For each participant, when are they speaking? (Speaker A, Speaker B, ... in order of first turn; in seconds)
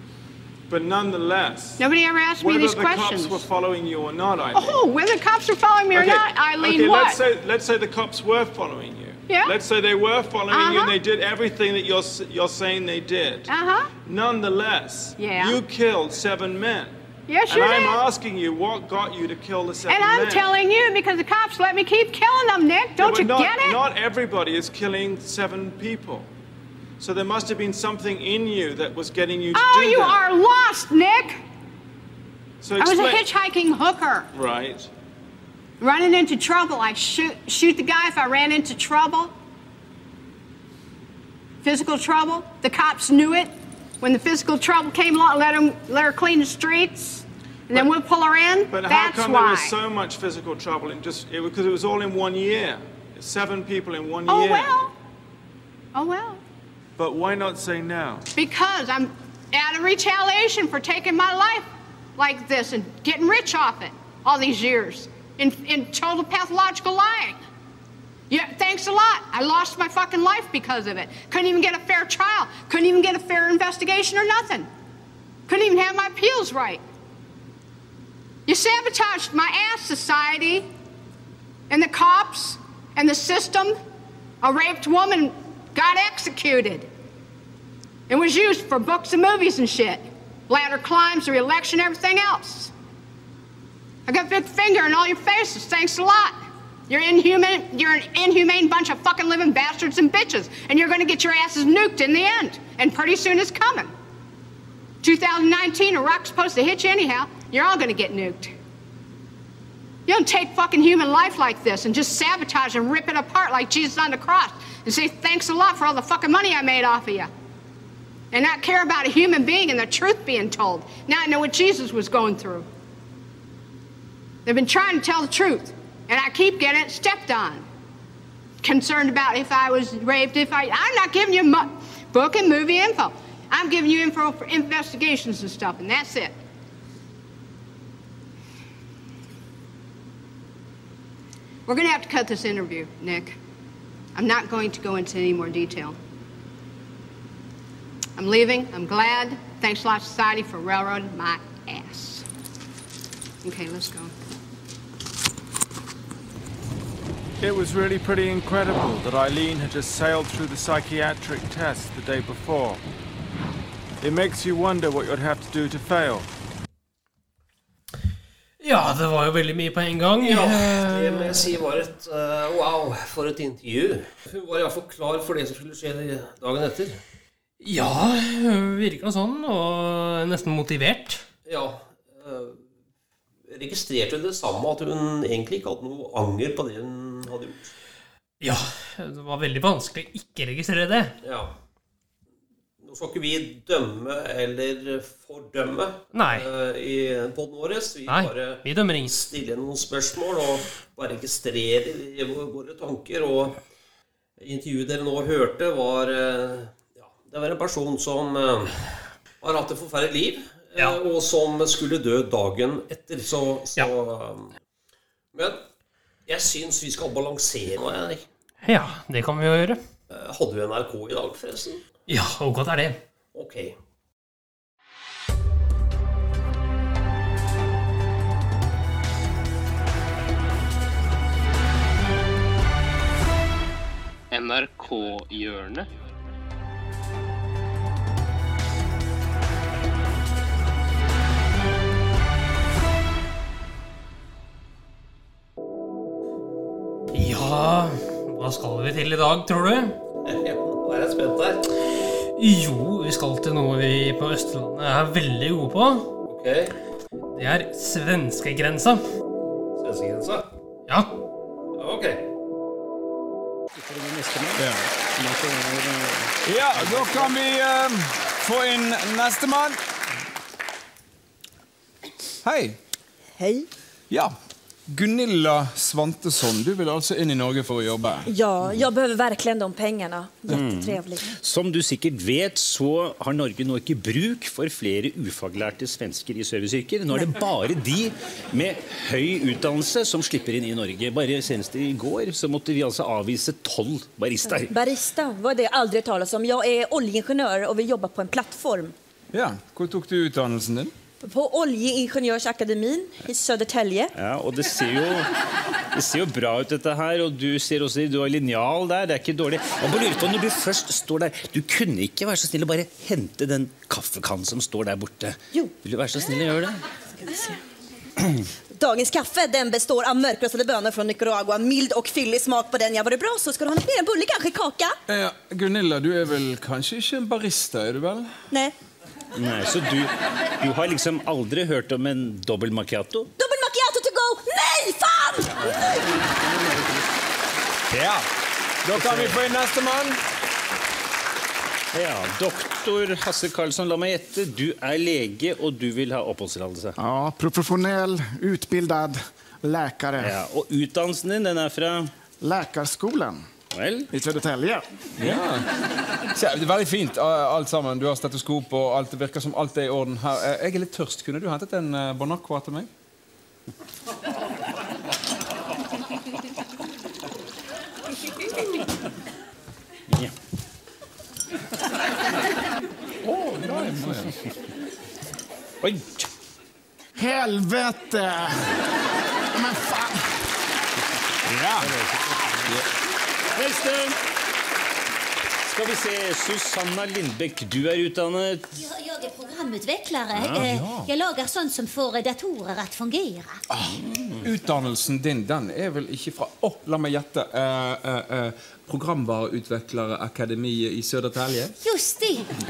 Speaker A: 0.7-1.8, 2.4-4.8, 5.9-13.5, 14.0-16.9, 17.5-20.5, 23.0-26.3, 27.0-30.2, 32.6-33.2, 34.3-34.9, 48.7-54.8, 57.0-58.3, 157.4-162.8, 164.0-166.3
Speaker B: 1.8-3.5, 4.5-7.2, 9.3-9.5, 10.5-10.9, 13.5-13.9, 15.2-15.6, 17.3-18.0, 19.9-23.8, 29.5-31.4, 32.8-34.3, 35.8-39.3, 41.6-49.7, 54.3-54.9, 55.9-56.4, 58.3-67.4, 68.3-74.7, 75.5-76.8, 78.5-80.6, 81.7-83.7, 84.4-86.8, 88.1-92.7, 94.1-96.3, 96.9-103.9, 105.0-108.5, 110.1-117.3, 118.3-122.7, 124.5-127.6, 128.6-136.3, 141.7-143.3, 144.2-145.9, 148.2-152.2, 153.4-154.1
Speaker C: 168.6-171.5, 177.6-181.2, 188.4-191.2, 196.1-196.5, 198.1-199.2, 218.6-219.8, 222.1-223.0, 234.3-235.9, 247.1-250.0, 252.3-256.1, 257.3-259.0, 260.9-261.2
Speaker D: 170.2-177.0, 181.4-182.6, 183.5-187.7, 191.2-191.5, 192.8-203.6, 204.4-208.8, 209.4-214.5, 215.3-215.6, 216.3-218.2, 220.1-221.8, 223.3-223.7, 250.2-251.6, 256.3-256.7, 259.8-260.5, 261.7-262.2
Speaker E: 263.7-267.3, 280.5-294.7, 304.1-305.3, 305.9-316.8, 329.3-333.3, 336.5-336.9, 338.9-339.4, 341.9-347.0, 350.2-352.1, 353.7-354.1, 375.8-376.3, 381.8-382.2, 383.5-384.2, 385.6-388.8, 390.3-390.7, 393.9-394.4
Speaker F: 264.6-264.8, 266.4-269.8, 272.4-272.8, 274.9-278.3, 299.3-300.9, 325.1-328.3, 337.9-338.2, 338.8-340.2, 355.2-355.6, 356.3-362.9, 373.2-374.3, 381.4-382.0, 390.4-391.1, 393.7-401.7
Speaker G: 273.3-273.7, 278.2-281.3, 287.1-287.4, 294.4-298.9, 301.2-304.1, 318.7-325.0, 328.5-328.8, 333.4-336.2
Speaker H: 347.0-350.2, 352.4-353.4, 354.1-354.8, 377.2-378.4, 379.6-380.1
Speaker I: 388.9-393.5, 401.9-402.4